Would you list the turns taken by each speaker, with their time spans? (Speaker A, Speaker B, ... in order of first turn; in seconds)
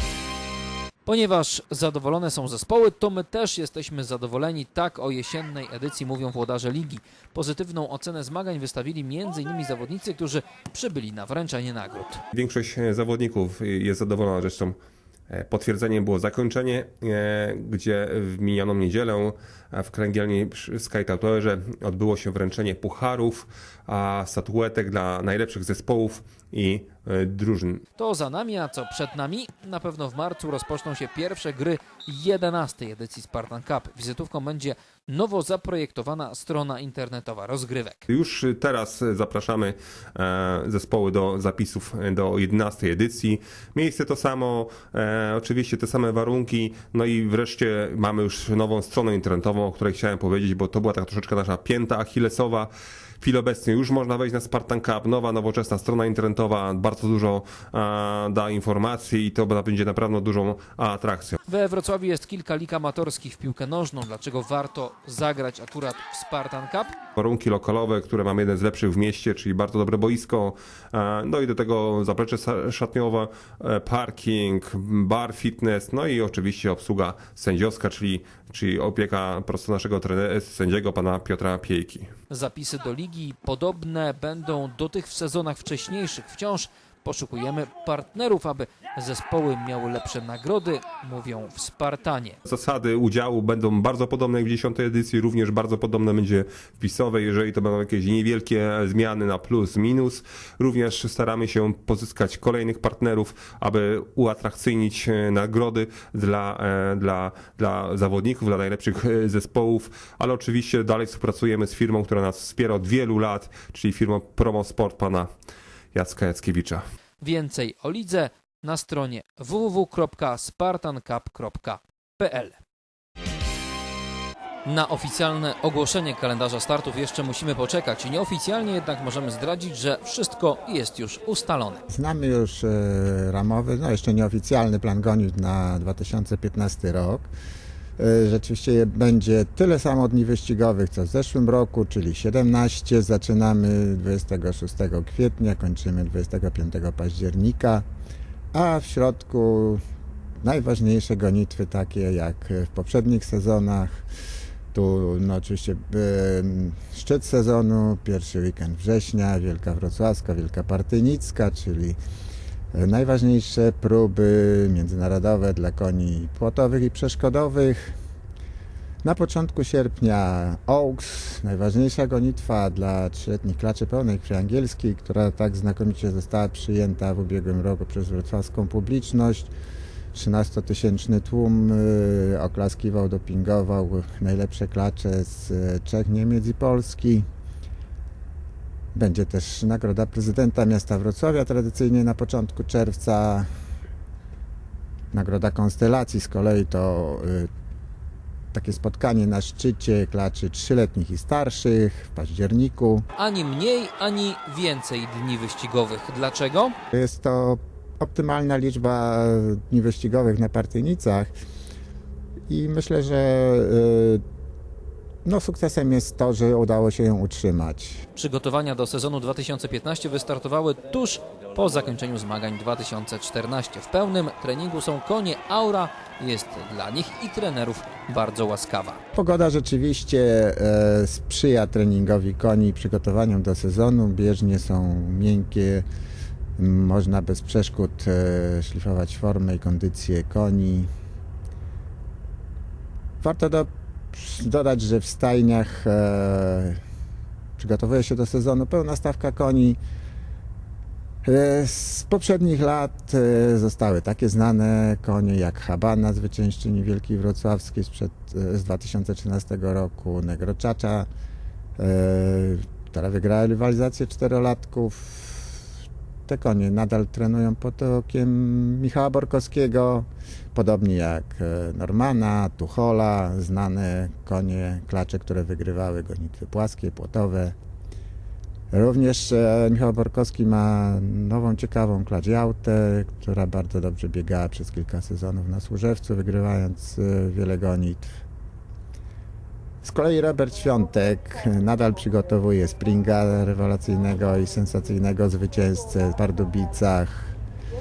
Speaker A: 1.1-12.2, 27.9-38.1, 61.5-67.0, 82.3-92.4, 117.2-122.6, 124.7-131.8, 203.2-206.8, 218.2-229.0
Speaker B: 12.3-14.8, 15.3-27.8, 38.1-61.4, 67.2-82.1, 92.5-115.3, 115.9-116.8
Speaker C: 131.9-137.3, 138.0-147.8, 148.5-149.8, 150.4-154.0, 154.7-162.0, 162.7-167.9, 169.0-179.5, 180.1-187.2, 188.9-193.5, 195.1-197.5, 198.5-203.0, 206.9-211.3, 212.5-214.2, 215.2-218.0, 229.1-235.8, 236.6-240.9, 243.2-246.8, 247.6-249.8, 251.2-261.1, 261.8-265.6, 266.3-277.5, 278.7-288.1, 289.8-297.3